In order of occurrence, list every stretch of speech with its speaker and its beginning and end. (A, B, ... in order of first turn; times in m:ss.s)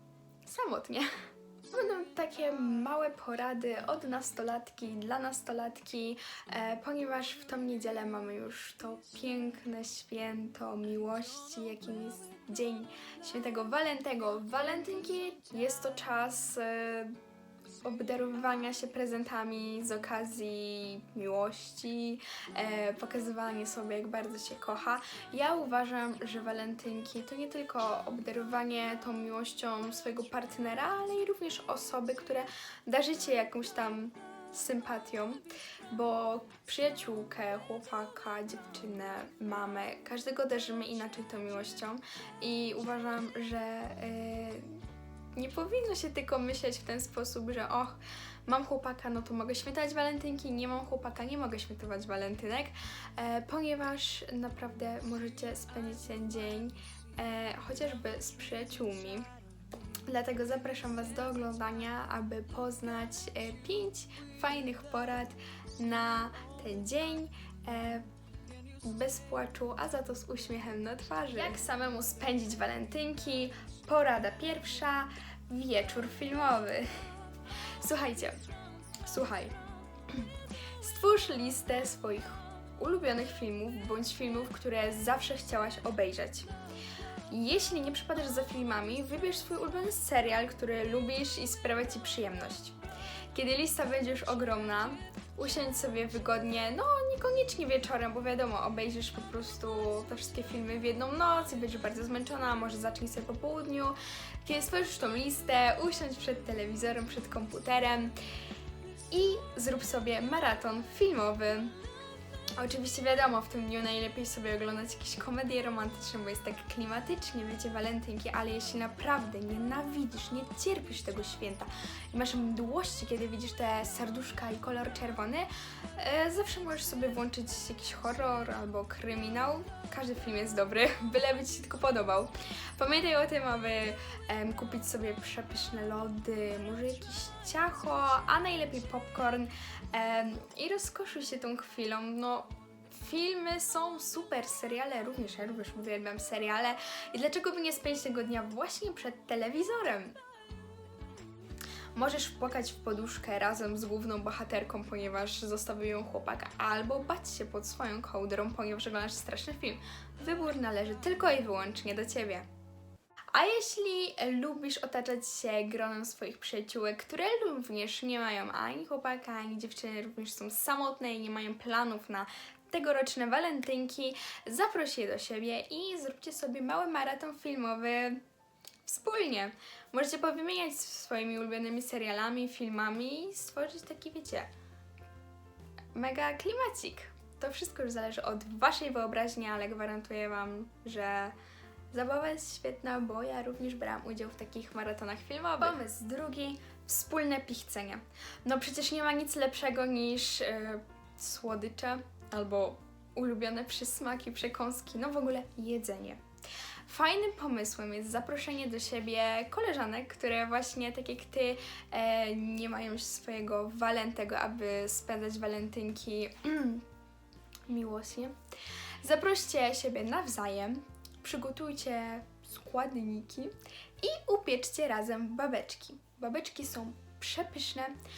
0:00.4-0:01.1 A
0:01.7-0:17.2 A
0:17.8-0:44.8 A
0:45.3-0:59.2 A
1:00.1-1:08.0 A
1:08.8-1:16.9 A
1:17.8-1:18.4 A
1:19.0-1:19.6 A
1:20.8-1:26.5 A
1:27.3-1:32.8 A
1:33.3-1:48.1 A
1:49.1-1:51.7 A
1:52.6-2:30.2 A
2:31.9-2:42.4 A
2:43.3-2:58.2 A
2:58.8-3:04.5 A
3:05.9-3:11.4 A
3:11.9-3:26.2 A
3:26.9-3:36.8 A
3:37.7-3:38.3 A
3:39.0-3:47.9 A